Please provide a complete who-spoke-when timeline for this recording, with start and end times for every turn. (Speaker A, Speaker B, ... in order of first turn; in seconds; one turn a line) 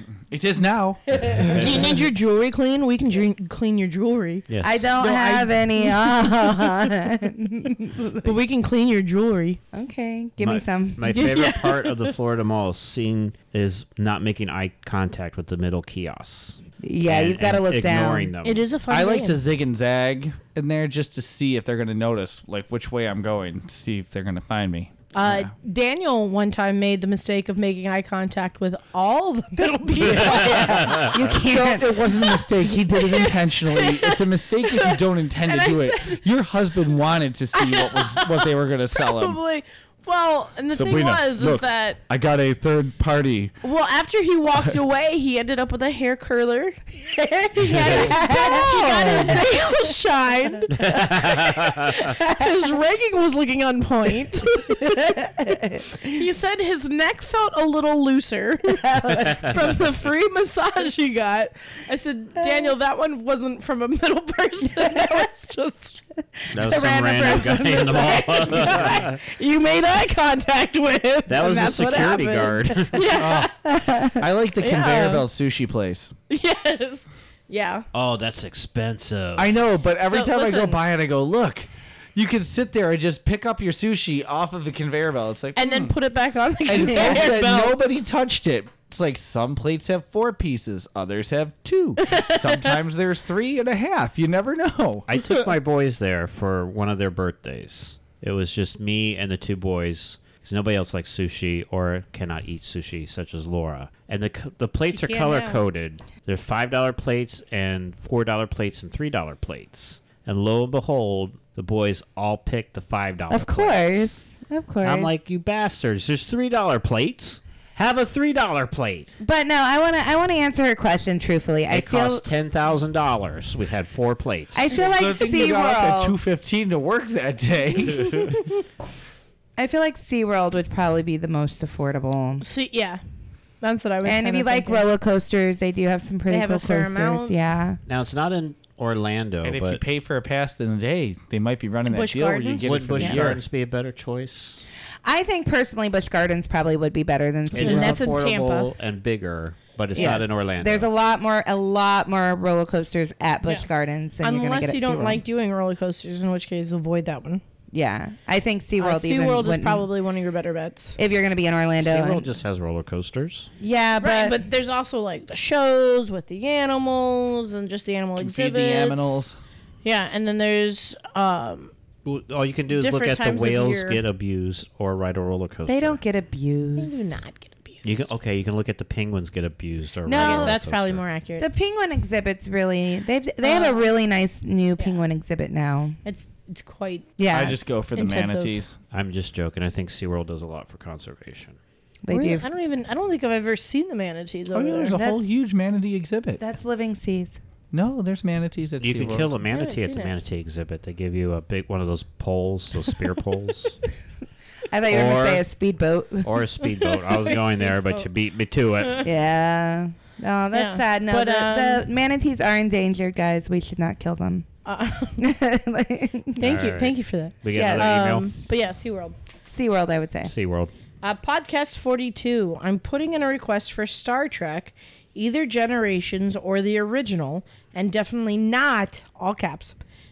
Speaker A: 0.3-1.6
Speaker B: 1.2-4.4
Speaker C: 1.6-1.8
Speaker C: 4.5-4.9
Speaker D: 4.6-8.3
Speaker B: 5.0-6.1
Speaker A: 5.0-5.5
Speaker B: 8.2-9.6
Speaker D: 9.7-11.3
Speaker C: 10.4-18.6
Speaker B: 11.1-12.1
Speaker D: 16.8-18.3
Speaker B: 18.4-19.4
Speaker A: 18.9-25.5
Speaker B: 25.1-31.0
Speaker A: 29.8-39.4
Speaker D: 30.0-32.0
Speaker C: 30.6-31.1
Speaker B: 32.7-36.2
Speaker B: 37.5-42.0
Speaker A: 40.7-43.5
Speaker B: 43.6-46.8
Speaker D: 47.2-49.7
Speaker B: 47.5-50.7
Speaker C: 47.7-48.1
Speaker C: 50.7-52.1
Speaker B: 52.0-55.1
Speaker D: 54.8-55.9
Speaker B: 56.0-66.0
Speaker D: 58.8-59.7
Speaker C: 66.5-69.2
Speaker B: 66.6-73.5
Speaker C: 71.3-73.0
Speaker A: 73.2-73.5
Speaker D: 73.6-74.2
Speaker A: 74.1-76.1
Speaker B: 74.6-75.2
Speaker B: 76.3-77.8
Speaker C: 77.9-79.5
Speaker A: 79.3-85.9
Speaker B: 80.1-80.8
Speaker B: 85.5-87.8
Speaker A: 86.7-95.1
Speaker B: 92.0-92.8
Speaker C: 95.1-114.1
Speaker B: 104.9-105.6
Speaker D: 113.3-115.1
Speaker C: 114.8-119.2
Speaker D: 119.2-122.2
Speaker C: 121.7-124.7
Speaker D: 124.5-126.2
Speaker A: 124.7-128.4
Speaker D: 129.6-132.4
Speaker B: 132.4-133.0
Speaker B: 133.6-134.8
Speaker D: 134.0-137.8
Speaker B: 136.3-137.3
Speaker C: 137.9-139.8
Speaker A: 139.4-143.4
Speaker B: 141.9-142.7
Speaker C: 142.6-144.6
Speaker D: 143.0-143.3
Speaker D: 145.0-148.1
Speaker C: 147.5-150.9
Speaker B: 147.6-148.7
Speaker D: 149.9-155.2
Speaker B: 154.2-157.4
Speaker D: 157.7-159.9
Speaker B: 158.8-161.0
Speaker D: 161.0-162.3
Speaker C: 161.8-163.5
Speaker D: 163.6-164.4
Speaker B: 164.0-169.2
Speaker A: 168.2-169.4
Speaker B: 169.8-171.7
Speaker C: 172.0-176.0
Speaker B: 172.7-174.0
Speaker D: 175.7-177.1
Speaker B: 176.8-177.8
Speaker C: 177.8-181.0
Speaker D: 180.1-180.6
Speaker B: 180.1-181.5
Speaker D: 181.4-186.0
Speaker B: 183.4-183.9
Speaker B: 186.0-187.1
Speaker D: 187.2-187.6
Speaker A: 187.3-188.8
Speaker B: 187.9-188.6
Speaker C: 188.9-191.6
Speaker D: 192.0-192.4
Speaker B: 192.1-195.0
Speaker A: 194.5-196.4
Speaker D: 194.9-195.2
Speaker D: 196.4-197.4
Speaker A: 197.7-199.3
Speaker C: 198.8-203.8
Speaker B: 199.5-200.1
Speaker D: 204.7-206.3
Speaker C: 204.9-205.4
Speaker C: 206.2-209.1
Speaker B: 206.8-208.1
Speaker D: 209.0-214.5
Speaker B: 210.5-211.8
Speaker B: 214.7-215.2
Speaker D: 215.2-216.5
Speaker B: 216.4-219.1
Speaker C: 216.4-218.3
Speaker D: 217.5-218.0
Speaker D: 219.5-220.3
Speaker C: 220.2-220.7
Speaker B: 221.0-229.8